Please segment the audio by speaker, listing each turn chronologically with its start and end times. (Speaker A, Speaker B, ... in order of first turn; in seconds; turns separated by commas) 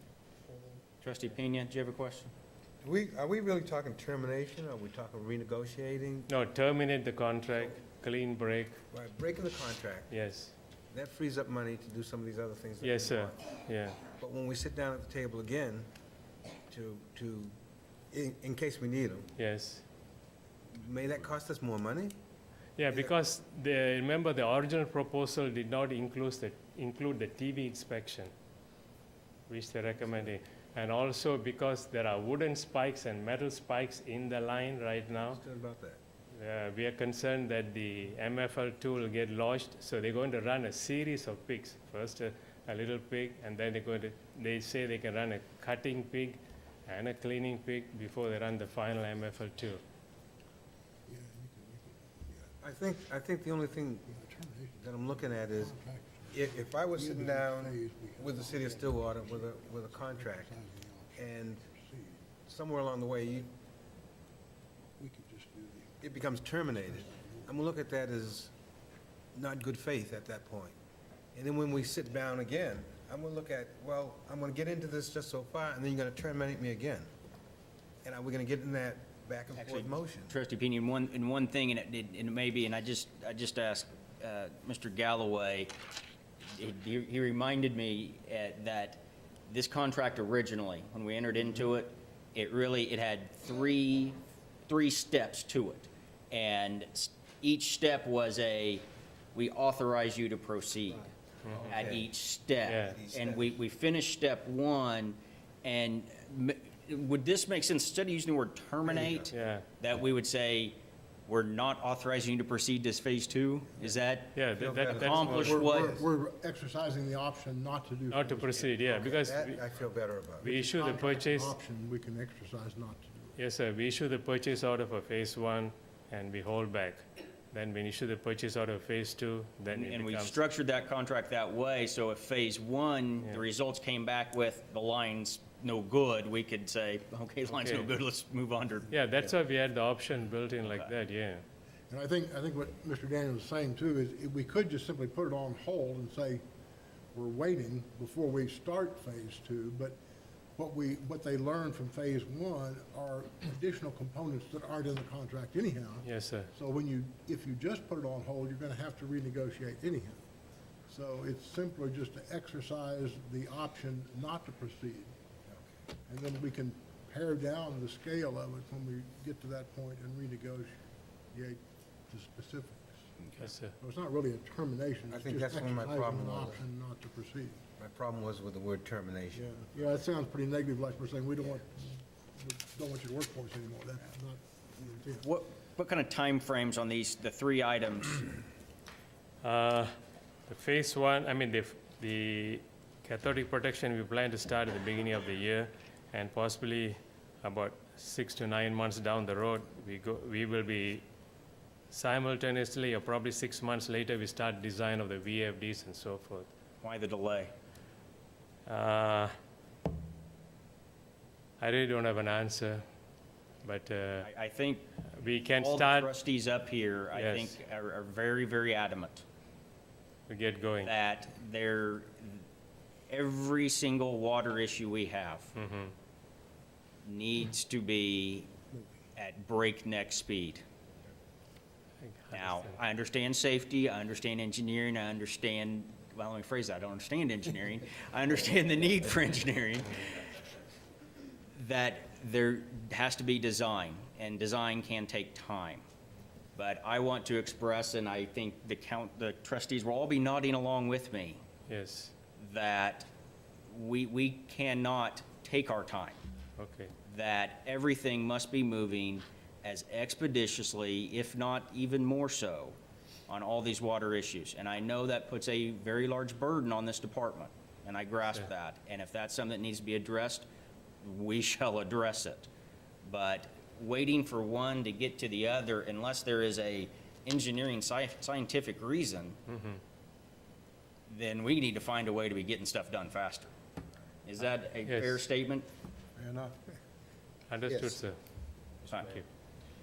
Speaker A: 1.0-2.3, Speaker B: 2.8-6.3, Speaker C: 6.3-8.8, Speaker B: 8.9-10.1, Speaker C: 10.1-10.5, Speaker B: 10.9-13.4, Speaker C: 12.8-14.0, Speaker B: 14.2-15.9, Speaker B: 16.7-17.5, Speaker B: 18.1-19.3, Speaker C: 19.4-19.8, Speaker B: 20.7-22.1, Speaker C: 22.8-28.3, Speaker C: 29.5-35.4, Speaker B: 35.2-36.0, Speaker C: 36.3-49.8, Speaker D: 51.1-52.6, Speaker B: 52.6-54.1, Speaker D: 54.1-62.2, Speaker B: 54.8-55.7, Speaker B: 56.3-60.6, Speaker B: 61.2-61.6, Speaker B: 62.5-63.5, Speaker D: 65.0-66.0, Speaker B: 66.0-68.5, Speaker D: 66.8-67.5, Speaker B: 69.3-70.8, Speaker B: 71.3-77.1, Speaker B: 78.0-80.3, Speaker A: 79.6-85.7, Speaker A: 86.5-101.1, Speaker C: 101.5-101.7, Speaker B: 101.5-102.1, Speaker A: 101.7-114.3, Speaker C: 102.7-103.0, Speaker B: 102.9-103.6, Speaker B: 108.9-109.3, Speaker C: 109.3-109.7, Speaker C: 114.3-115.6, Speaker B: 114.5-116.1, Speaker A: 114.9-116.0, Speaker D: 115.4-119.1, Speaker C: 118.1-119.6, Speaker B: 119.0-120.5, Speaker C: 120.4-121.6, Speaker D: 120.4-123.4, Speaker C: 123.4-130.4, Speaker A: 129.7-138.9, Speaker C: 137.5-137.9, Speaker C: 138.9-141.4, Speaker D: 141.9-146.4, Speaker D: 147.1-150.0, Speaker D: 150.6-160.2, Speaker C: 156.1-156.5, Speaker D: 160.9-165.1, Speaker D: 166.1-170.8, Speaker D: 171.3-173.0, Speaker C: 173.4-173.7, Speaker D: 173.8-177.6, Speaker B: 175.1-176.6, Speaker B: 177.8-179.4, Speaker D: 179.3-185.3, Speaker A: 185.2-188.3, Speaker C: 189.4-189.9, Speaker C: 190.5-201.0, Speaker C: 201.9-206.5, Speaker A: 206.8-207.5, Speaker C: 208.7-209.3, Speaker C: 211.6-212.8, Speaker C: 213.6-214.3, Speaker A: 214.2-214.8, Speaker C: 215.1-216.1, Speaker A: 215.6-219.2, Speaker C: 217.1-217.6, Speaker C: 220.3-220.9, Speaker A: 220.8-222.4, Speaker A: 223.1-225.5, Speaker C: 225.6-225.9, Speaker A: 227.0-228.5, Speaker A: 229.2-230.6, Speaker C: 232.0-232.8, Speaker A: 232.3-240.3, Speaker A: 241.6-245.8, Speaker A: 246.6-251.4, Speaker C: 251.7-252.1, Speaker A: 252.4-253.1, Speaker A: 253.7-256.2, Speaker C: 256.6-256.9, Speaker A: 257.1-262.8, Speaker A: 263.3-270.5, Speaker A: 271.0-272.5, Speaker A: 273.1-279.4, Speaker C: 279.5-279.8, Speaker A: 281.1-283.5, Speaker A: 284.2-285.7, Speaker C: 284.9-285.2, Speaker B: 286.2-286.6, Speaker C: 287.5-288.2, Speaker A: 288.8-289.2